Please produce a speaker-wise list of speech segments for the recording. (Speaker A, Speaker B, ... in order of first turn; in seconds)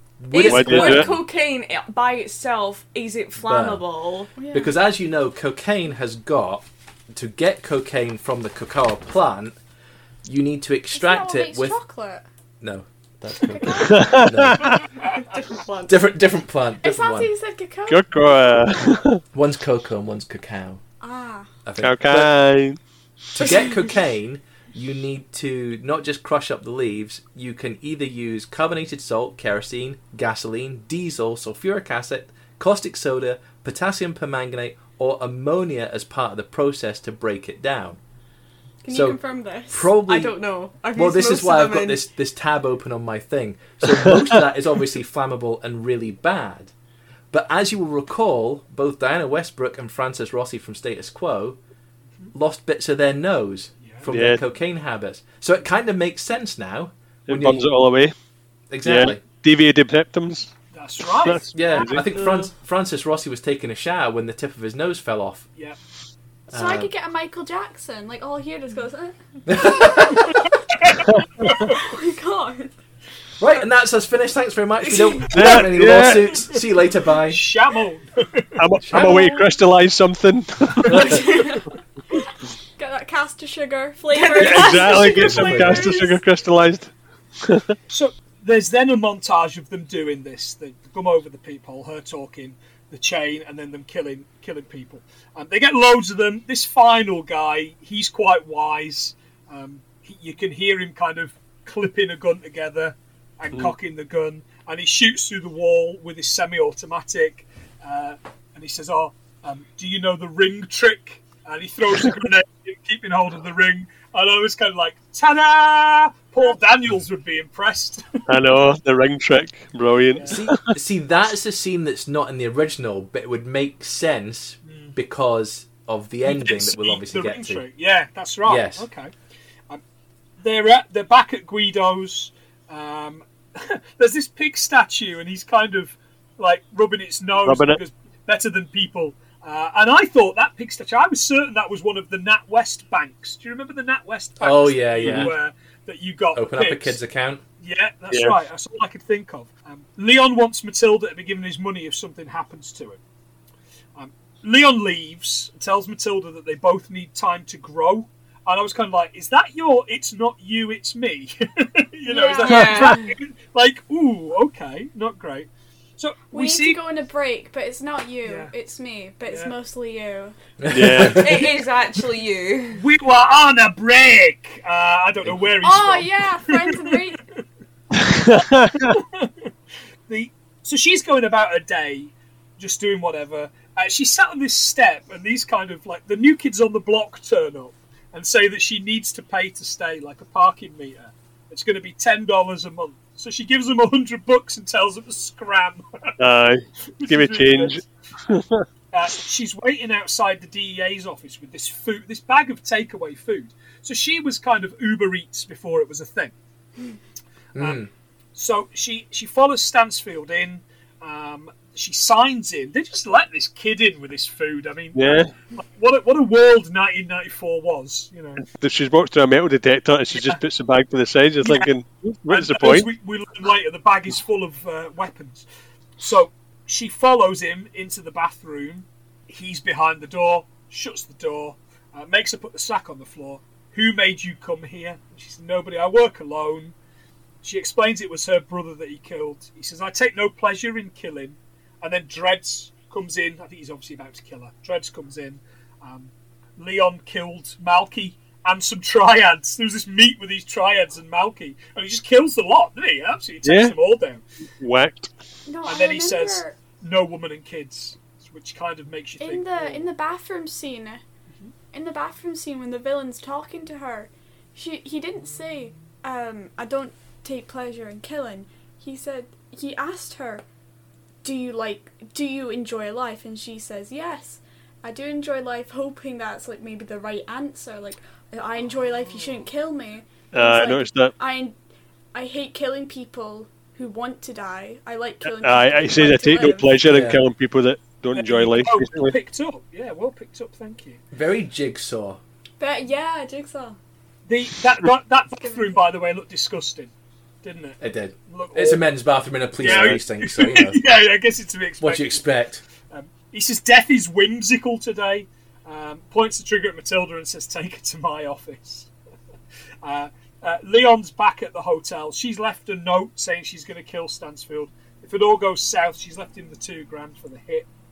Speaker A: 0.2-1.2, 3.4-3.8, 4.5-9.6, 10.2-11.8, 12.6-14.7, 15.9-17.3, 19.3-20.8, 21.6-22.4, 23.3-38.0, 38.9-40.4, 40.9-46.7, 47.3-51.6, 52.3-57.7, 58.7-59.2, 61.5-65.5, 66.5-66.9, 69.5-70.4, 73.4-77.4, 78.8-79.3, 85.2-85.9, 120.3-127.6, 128.4-128.9, 144.4-145.3, 146.3-147.4, 170.6-171.4, 207.5-207.9, 286.9-287.2, 291.1-292.2, 297.8-300.8, 301.8-302.6
Speaker B: 0.3-4.3, 15.0-16.0, 40.1-42.0, 80.9-81.6, 84.1-86.1, 162.4-163.1, 171.1-172.8
Speaker C: 0.4-1.2, 13.9-14.8, 17.9-19.2, 21.8-22.8, 54.1-54.4, 57.3-58.1, 58.8-60.5, 61.2-62.5, 71.1-71.7, 75.3-76.4, 78.6-81.2, 84.3-86.9, 87.4-87.7, 118.3-120.7, 137.4-137.8, 145.0-145.3, 148.1-148.4, 170.7-171.4, 177.9-178.9, 196.2-198.6, 214.9-215.3, 218.4-222.9, 253.4-253.8, 254.6-255.1, 280.3-281.1, 285.2-289.2, 299.6-300.0
Speaker D: 4.3-4.7, 10.9-12.2, 13.5-14.3, 16.8-18.4, 21.0-21.5, 38.8-39.9, 66.5-70.4, 71.7-72.7, 79.0-79.5, 81.2-81.5, 82.8-86.2, 162.1-163.0, 166.3-170.3, 175.6-177.2, 255.5-256.6, 259.2-261.0, 261.7-270.4, 271.2-281.5, 282.1-286.8, 292.6-293.8, 295.4-295.8
Speaker E: 53.8-54.1, 60.7-61.5, 75.3-76.6, 77.3-78.6, 87.9-118.2, 124.6-124.9, 126.2-129.1, 130.4-147.0, 147.6-153.0, 153.9-166.8, 168.2-168.5, 169.3-169.5, 172.7-177.4, 178.3-179.3, 180.1-196.1, 197.0-197.8, 198.9-206.3, 207.6-207.8, 208.3-218.4, 220.1-220.4, 221.4-221.7, 222.3-225.4, 226.0-236.7, 237.4-254.2, 255.7-259.9, 278.8-279.4, 288.1-291.0, 294.3-296.9, 297.4-298.9, 299.6-302.3, 302.9-308.9, 309.8-317.7